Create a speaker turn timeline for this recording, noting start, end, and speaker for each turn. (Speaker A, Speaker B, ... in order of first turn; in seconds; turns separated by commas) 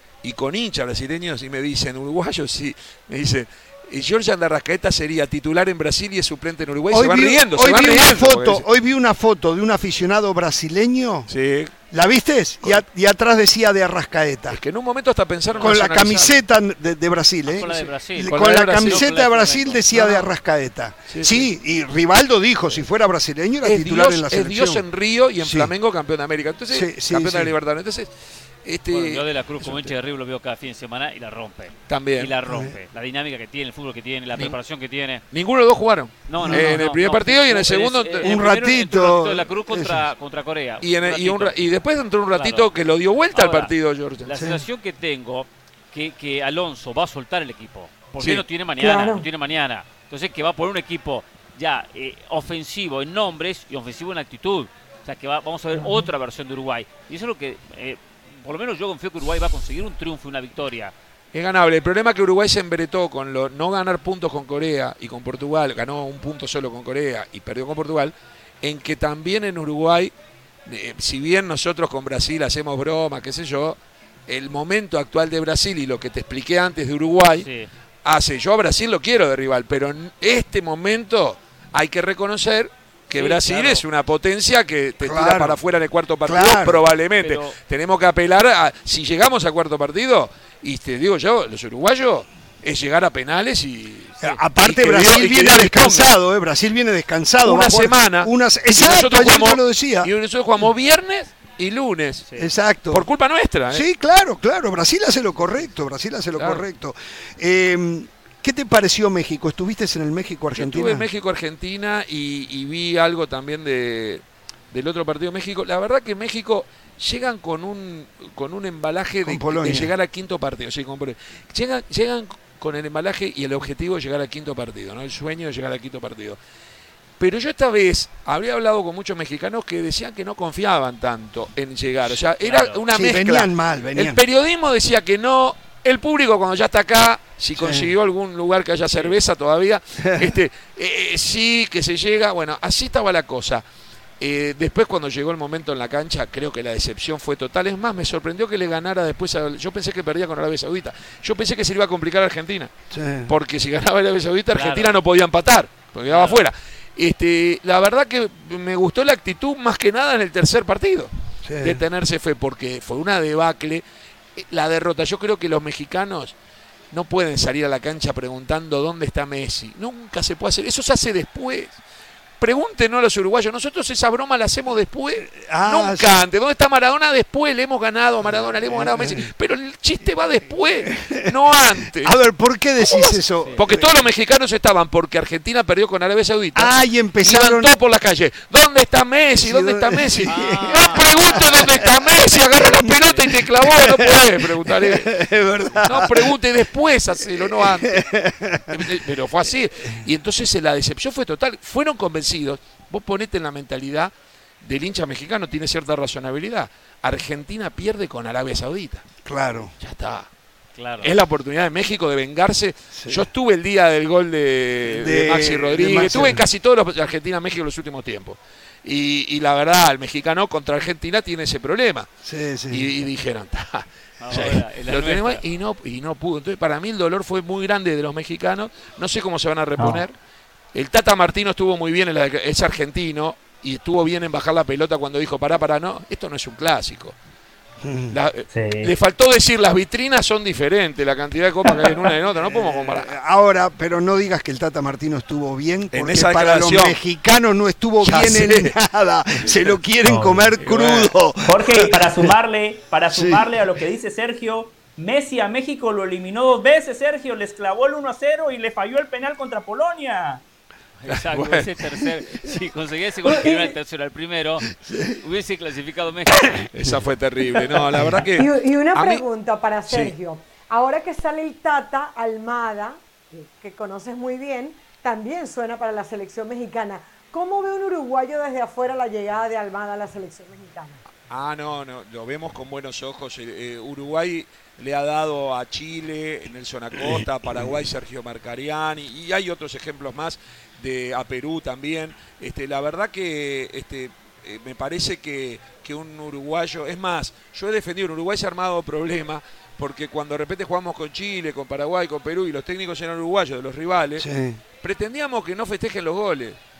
Speaker A: 0.2-8.6, Speaker B: 6.9-11.3, Speaker A: 11.3-11.8, Speaker B: 11.9-14.6, Speaker A: 14.5-16.4, Speaker C: 15.5-15.9, Speaker B: 15.6-24.9, Speaker C: 17.5-20.2, Speaker A: 18.2-19.1, Speaker A: 21.1-21.5, Speaker A: 23.6-28.1, Speaker B: 25.4-25.7, Speaker B: 26.7-27.5, Speaker A: 28.6-29.8, Speaker C: 28.9-35.2, Speaker A: 31.9-32.4, Speaker B: 32.5-32.8, Speaker A: 35.3-38.4, Speaker C: 36.3-41.6, Speaker B: 36.4-36.8, Speaker B: 38.2-40.1, Speaker A: 40.8-44.4, Speaker C: 42.3-42.7, Speaker C: 43.3-60.9, Speaker B: 44.4-44.6, Speaker A: 48.2-48.5, Speaker D: 48.8-49.3, Speaker D: 55.7-56.1, Speaker A: 61.3-70.1, Speaker A: 70.7-77.5, Speaker C: 77.4-77.7, Speaker A: 78.0-96.1, Speaker C: 83.1-83.8, Speaker B: 85.0-85.6, Speaker B: 86.2-86.9, Speaker C: 87.2-87.6, Speaker B: 94.2-100.1, Speaker A: 97.4-102.3, Speaker B: 102.4-103.1, Speaker A: 102.9-103.9, Speaker B: 103.7-111.1, Speaker A: 106.4-106.6, Speaker A: 110.5-126.4, Speaker B: 119.2-119.9, Speaker A: 127.2-143.6, Speaker C: 132.3-132.8, Speaker B: 132.9-134.2, Speaker B: 137.6-137.9, Speaker B: 140.0-140.3, Speaker A: 144.2-152.7, Speaker B: 152.9-153.3, Speaker A: 153.3-163.8, Speaker C: 154.5-155.0, Speaker C: 156.1-156.4, Speaker B: 161.4-161.8, Speaker A: 164.4-166.3, Speaker A: 166.9-171.8, Speaker A: 172.4-182.2, Speaker B: 175.3-176.2, Speaker B: 178.2-179.3, Speaker B: 180.9-181.3, Speaker B: 182.0-183.9, Speaker A: 182.8-198.1, Speaker B: 186.6-187.7, Speaker B: 189.4-196.3, Speaker C: 190.2-191.4, Speaker B: 197.3-199.0, Speaker A: 198.7-209.1, Speaker B: 209.2-209.7, Speaker A: 209.8-210.3, Speaker C: 210.8-211.1, Speaker A: 211.0-222.1, Speaker B: 212.9-213.3, Speaker B: 214.8-216.4, Speaker B: 222.2-222.8, Speaker A: 222.7-230.2, Speaker C: 224.2-225.4, Speaker A: 230.7-237.2, Speaker B: 237.8-238.2, Speaker A: 238.1-243.1, Speaker B: 242.3-252.3, Speaker A: 245.9-247.0, Speaker A: 248.0-248.8, Speaker E: 250.1-250.5, Speaker A: 250.6-251.1, Speaker E: 251.5-260.4, Speaker B: 253.1-253.5, Speaker C: 261.0-266.6, Speaker A: 261.1-261.7, Speaker D: 263.3-263.8, Speaker B: 264.7-265.2, Speaker A: 266.7-269.2, Speaker B: 267.9-268.2, Speaker D: 268.4-281.0, Speaker A: 269.9-270.1, Speaker A: 281.3-306.6, Speaker B: 304.2-304.6